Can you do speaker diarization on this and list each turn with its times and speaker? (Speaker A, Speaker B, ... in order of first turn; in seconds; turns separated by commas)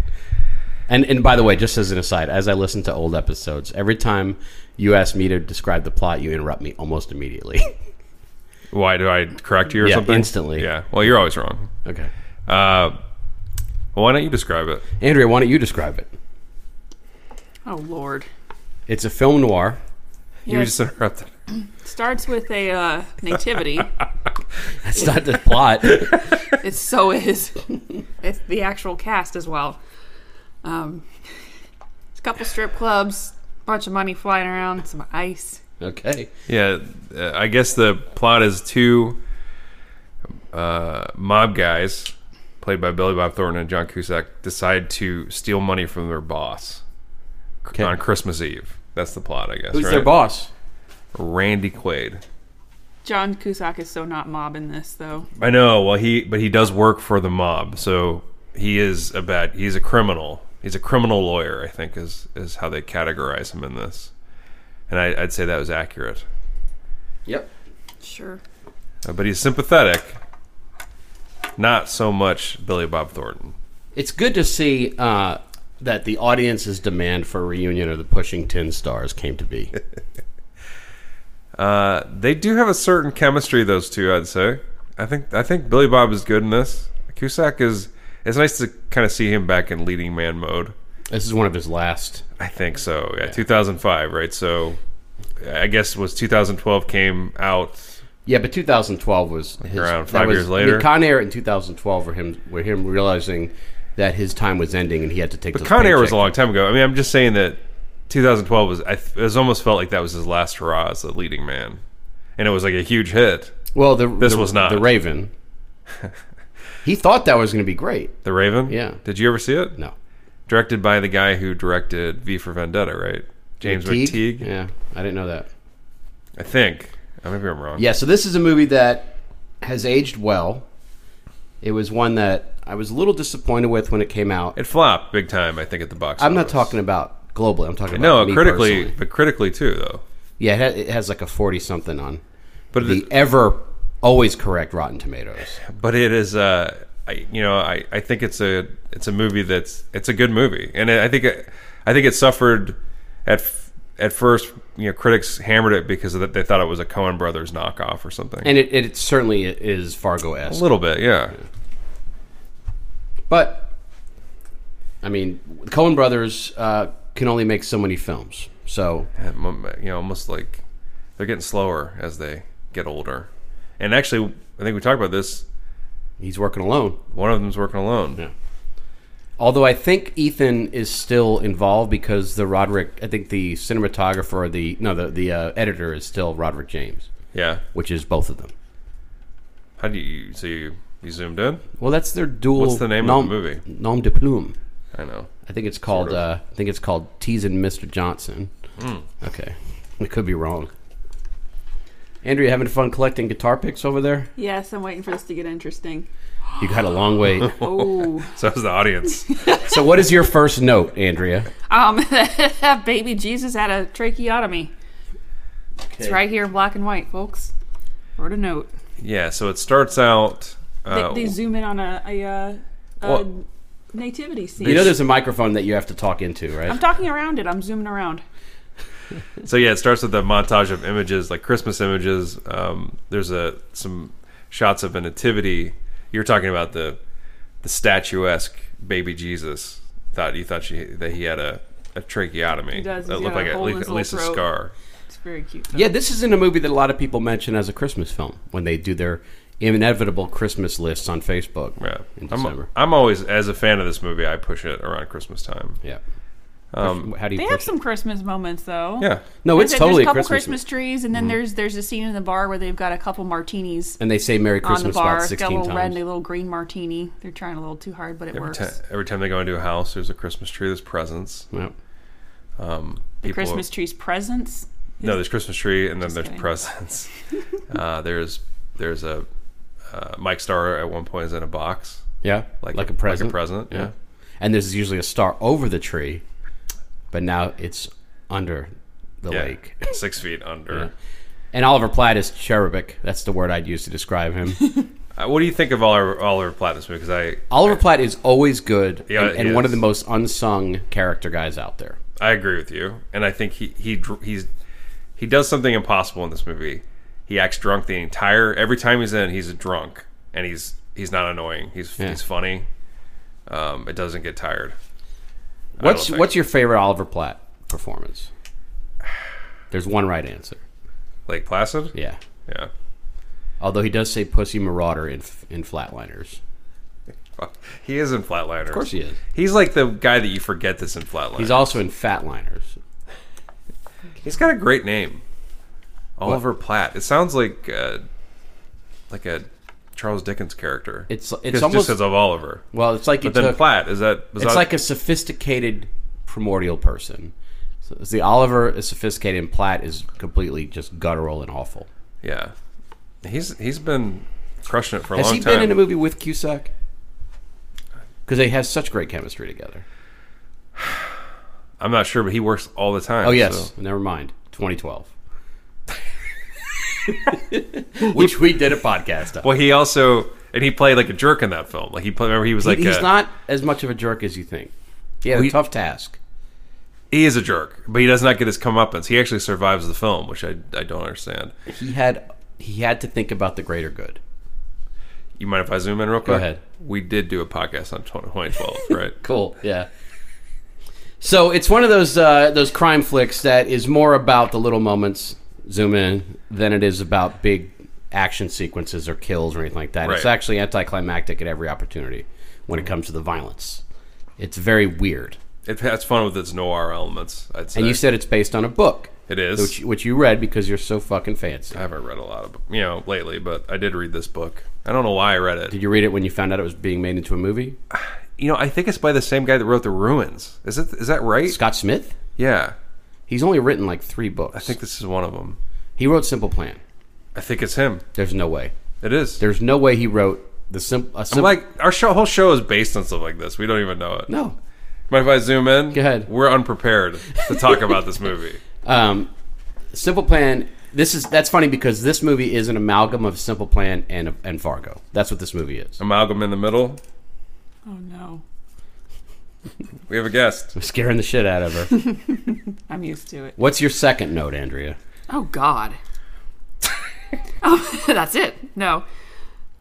Speaker A: 0.9-7.7, Speaker B: 8.7-11.7, Speaker A: 9.8-10.7, Speaker A: 11.8-12.1, Speaker B: 12.5-13.0, Speaker B: 13.9-14.8, Speaker A: 15.0-16.1, Speaker C: 17.6-18.3, Speaker A: 18.9-19.8, Speaker B: 20.5-21.3, Speaker C: 20.5-20.7, Speaker C: 21.8-23.9, Speaker A: 24.8-26.3, Speaker C: 26.5-27.7, Speaker C: 28.2-29.8, Speaker C: 30.6-31.4, Speaker C: 32.2-35.6, Speaker A: 35.8-36.3, Speaker B: 36.5-39.2, Speaker B: 40.5-46.8, Speaker B: 47.7-50.1, Speaker A: 49.7-50.5, Speaker B: 51.1-52.2, Speaker C: 53.0-55.3, Speaker B: 55.4-64.1, Speaker B: 64.9-66.2, Speaker C: 68.0-68.4, Speaker B: 69.0-70.2, Speaker B: 71.6-73.5, Speaker A: 74.0-79.7, Speaker B: 81.6-90.8, Speaker A: 91.1-92.2, Speaker B: 92.4-94.8, Speaker B: 95.4-98.0, Speaker A: 98.3-106.3, Speaker B: 99.6-100.9, Speaker B: 105.5-107.6, Speaker B: 108.1-111.8, Speaker B: 112.4-113.5, Speaker A: 113.7-115.3, Speaker B: 114.2-114.9, Speaker A: 116.8-119.0, Speaker B: 118.2-119.8, Speaker B: 120.5-124.5, Speaker A: 123.6-125.5, Speaker B: 126.4-127.8, Speaker A: 127.8-130.7, Speaker A: 131.6-134.6, Speaker B: 134.6-136.7, Speaker A: 136.2-138.9, Speaker B: 137.9-140.0, Speaker A: 140.4-142.2, Speaker B: 142.7-143.1, Speaker A: 142.8-145.6, Speaker B: 145.7-158.5, Speaker A: 158.4-160.7, Speaker B: 160.5-161.3, Speaker A: 163.3-163.7, Speaker A: 165.0-169.1, Speaker B: 169.2-170.6, Speaker B: 171.2-175.4, Speaker A: 176.2-177.0, Speaker B: 177.1-178.2, Speaker A: 179.4-187.1, Speaker B: 187.3-187.6, Speaker A: 187.7-188.5, Speaker B: 189.8-191.7, Speaker A: 191.8-194.6, Speaker B: 192.6-193.6, Speaker B: 194.9-195.3, Speaker A: 195.5-198.5, Speaker B: 195.9-196.2, Speaker B: 198.8-199.1, Speaker A: 199.2-200.7, Speaker A: 202.2-204.3, Speaker C: 204.4-206.1, Speaker A: 206.6-207.5, Speaker B: 207.4-209.4, Speaker C: 207.5-208.3, Speaker C: 209.3-209.6, Speaker A: 209.6-211.5, Speaker C: 211.7-214.7, Speaker A: 215.9-216.2, Speaker C: 216.0-217.5, Speaker C: 218.2-218.7, Speaker B: 219.0-221.4, Speaker C: 220.9-225.0, Speaker A: 224.6-226.8, Speaker C: 226.7-228.2, Speaker B: 229.4-237.0, Speaker B: 237.6-244.7, Speaker C: 242.7-244.5, Speaker C: 245.1-245.9, Speaker A: 245.7-252.7, Speaker B: 251.8-255.8, Speaker B: 256.7-257.1, Speaker A: 256.8-257.7, Speaker C: 257.4-264.0, Speaker A: 259.4-260.6, Speaker A: 264.0-266.0, Speaker C: 264.6-268.8, Speaker B: 268.3-271.5, Speaker B: 272.6-273.6, Speaker C: 273.2-275.2, Speaker B: 275.0-277.1, Speaker C: 276.0-276.5, Speaker B: 277.7-279.3, Speaker B: 279.9-282.1, Speaker A: 282.2-286.2, Speaker B: 282.6-283.9, Speaker A: 287.1-288.7, Speaker A: 289.2-289.9, Speaker B: 289.3-290.9, Speaker A: 291.5-294.9, Speaker B: 295.2-297.8, Speaker A: 297.5-302.0, Speaker B: 299.1-299.8, Speaker B: 302.2-304.5, Speaker B: 305.2-312.7, Speaker B: 313.5-314.8, Speaker B: 315.8-316.3, Speaker A: 315.8-318.3, Speaker A: 319.7-320.6, Speaker B: 321.3-321.9, Speaker A: 321.9-322.2, Speaker A: 323.6-326.4, Speaker B: 327.4-331.7, Speaker A: 328.7-329.2, Speaker A: 331.4-332.8, Speaker B: 334.2-335.2, Speaker B: 336.2-338.0, Speaker B: 339.1-342.6, Speaker A: 341.1-342.0, Speaker A: 342.7-343.6, Speaker B: 343.2-344.7, Speaker A: 344.4-347.3, Speaker A: 347.8-351.9, Speaker B: 352.2-352.5, Speaker B: 353.2-355.8, Speaker A: 355.1-356.7, Speaker A: 358.3-359.9, Speaker B: 360.8-361.1, Speaker B: 361.8-363.7, Speaker A: 363.2-365.1, Speaker A: 367.1-369.5, Speaker B: 368.0-368.3, Speaker B: 369.4-373.1, Speaker A: 372.6-374.7, Speaker A: 375.2-376.2, Speaker B: 377.1-381.5, Speaker A: 381.7-384.2, Speaker B: 385.4-389.2, Speaker A: 386.2-386.6, Speaker A: 389.2-389.9, Speaker A: 391.2-403.8, Speaker B: 400.1-400.3, Speaker A: 404.4-405.4, Speaker B: 405.7-408.0, Speaker A: 407.8-411.8, Speaker B: 409.3-409.8, Speaker B: 411.7-415.8, Speaker A: 415.7-417.8, Speaker B: 417.9-421.6, Speaker A: 421.5-422.2, Speaker B: 422.4-422.8, Speaker A: 423.3-424.8, Speaker B: 424.5-425.6, Speaker A: 426.0-426.8, Speaker B: 427.4-428.0, Speaker A: 428.1-428.7, Speaker B: 429.0-429.4, Speaker A: 429.4-431.6, Speaker B: 431.3-434.3, Speaker A: 434.3-434.6, Speaker B: 435.1-438.6, Speaker A: 435.9-436.3, Speaker A: 437.5-437.9, Speaker A: 438.8-439.3, Speaker A: 439.9-446.0, Speaker B: 446.0-447.0, Speaker C: 447.9-448.4, Speaker B: 450.1-450.7, Speaker A: 450.8-451.9, Speaker C: 452.9-453.6, Speaker A: 453.6-455.0, Speaker C: 455.3-456.0, Speaker C: 457.6-459.1